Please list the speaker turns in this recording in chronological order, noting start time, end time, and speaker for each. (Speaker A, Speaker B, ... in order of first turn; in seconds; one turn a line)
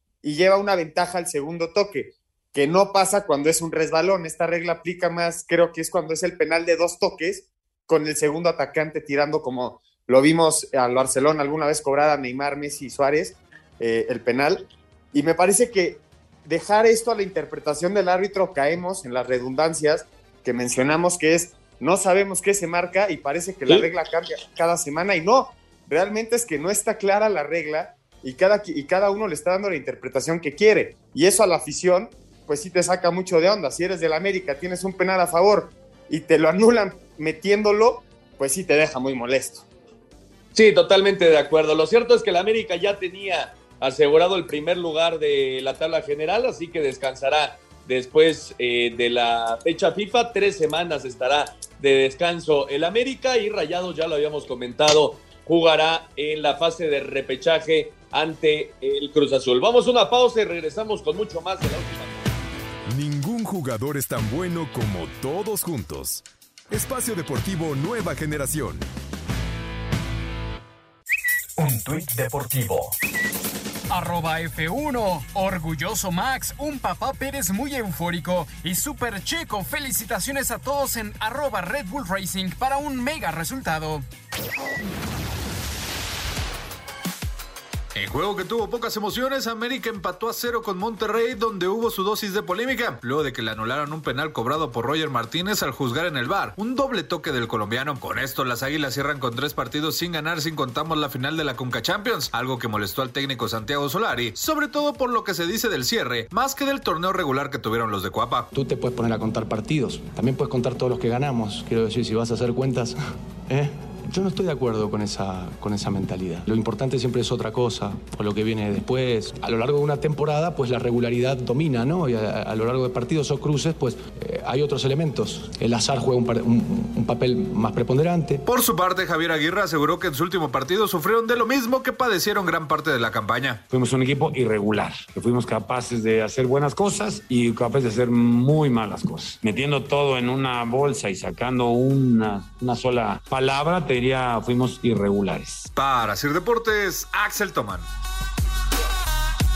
Speaker A: 0.2-39.6
Speaker B: 40.5-62.2
Speaker C: 62.9-68.9
Speaker C: 71.6-72.9
Speaker D: 73.9-84.0
Speaker E: 87.9-108.5
Speaker F: 108.5-128.4
Speaker E: 128.4-133.6
Speaker G: 133.7-145.7
Speaker E: 145.7-147.9